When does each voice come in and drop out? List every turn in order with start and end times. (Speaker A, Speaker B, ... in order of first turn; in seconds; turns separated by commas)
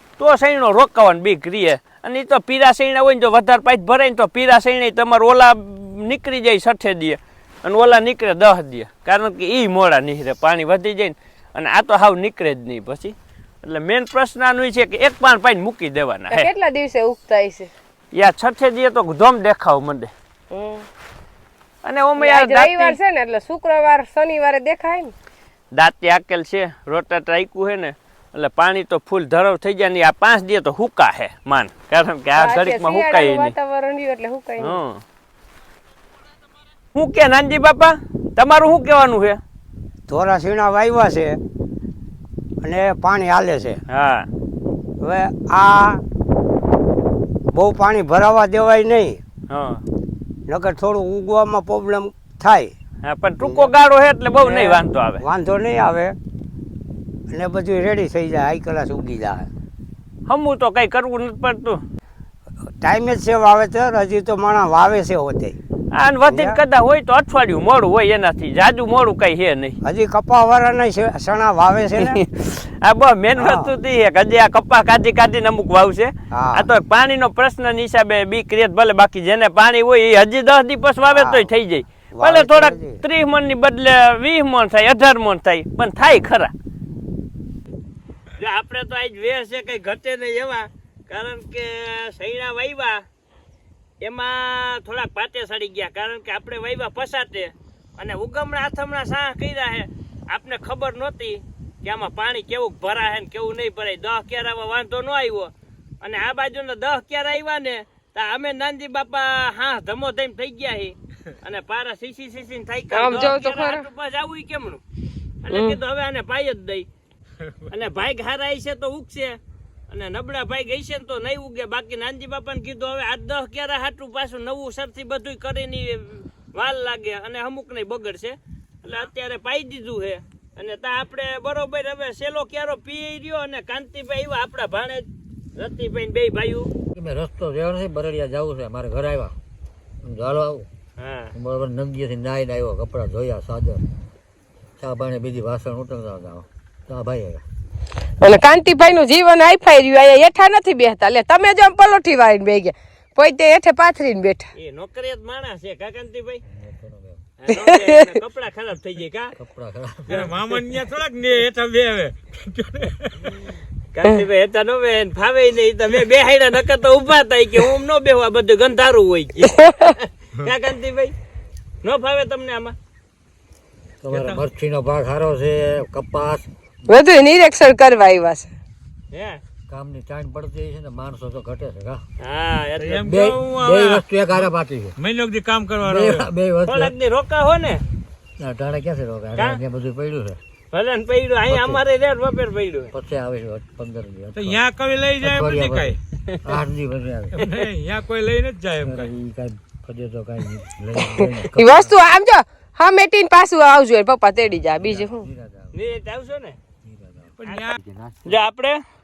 Speaker A: 0.2-16.5, Speaker B: 16.3-17.7, Speaker A: 18.1-20.1, Speaker B: 20.5-20.9, Speaker A: 21.8-23.0, Speaker B: 22.2-25.1, Speaker A: 25.7-33.5, Speaker B: 32.4-34.8, Speaker A: 34.6-35.0, Speaker A: 36.9-39.4, Speaker C: 40.1-41.4, Speaker C: 42.6-43.8, Speaker A: 43.9-44.3, Speaker C: 45.0-46.0, Speaker C: 47.5-49.2, Speaker A: 49.5-49.8, Speaker C: 50.5-52.7, Speaker A: 53.0-55.2, Speaker C: 53.4-53.7, Speaker C: 54.4-56.1, Speaker C: 57.3-59.5, Speaker A: 60.3-61.8, Speaker C: 62.7-65.6, Speaker A: 65.9-69.8, Speaker C: 66.2-66.6, Speaker C: 69.8-72.2, Speaker A: 72.0-86.5, Speaker C: 73.3-73.7, Speaker C: 76.3-76.7, Speaker C: 81.0-81.5, Speaker C: 82.1-83.0, Speaker A: 88.4-93.0, Speaker A: 94.0-114.8, Speaker B: 112.9-113.9, Speaker A: 115.4-116.9, Speaker B: 115.5-115.8, Speaker A: 117.7-119.4, Speaker A: 119.9-136.7, Speaker D: 136.9-139.3, Speaker D: 140.0-140.7, Speaker A: 141.0-141.3, Speaker D: 141.3-143.8, Speaker D: 144.8-147.4, Speaker B: 148.2-154.5, Speaker A: 154.6-156.4, Speaker D: 156.5-157.3, Speaker A: 157.4-159.3, Speaker B: 157.5-158.1, Speaker D: 159.4-160.3, Speaker E: 160.1-163.2, Speaker A: 163.9-171.1, Speaker B: 169.5-169.9, Speaker A: 171.8-172.8, Speaker D: 174.0-176.5, Speaker B: 176.8-178.5, Speaker A: 179.1-179.4, Speaker D: 179.7-182.0, Speaker A: 182.2-183.0, Speaker E: 182.8-184.4, Speaker D: 183.0-184.9, Speaker E: 185.0-186.3, Speaker D: 185.8-186.9, Speaker A: 186.6-187.8, Speaker D: 188.4-190.4, Speaker A: 190.7-192.9, Speaker D: 191.5-191.8, Speaker D: 192.9-194.6, Speaker E: 194.3-196.0, Speaker D: 195.2-197.4, Speaker E: 197.3-199.1, Speaker D: 198.8-201.9, Speaker B: 201.0-205.3, Speaker D: 204.5-205.7, Speaker A: 205.7-206.6, Speaker D: 206.8-208.4, Speaker E: 207.4-207.8, Speaker A: 207.4-207.7, Speaker A: 208.2-208.8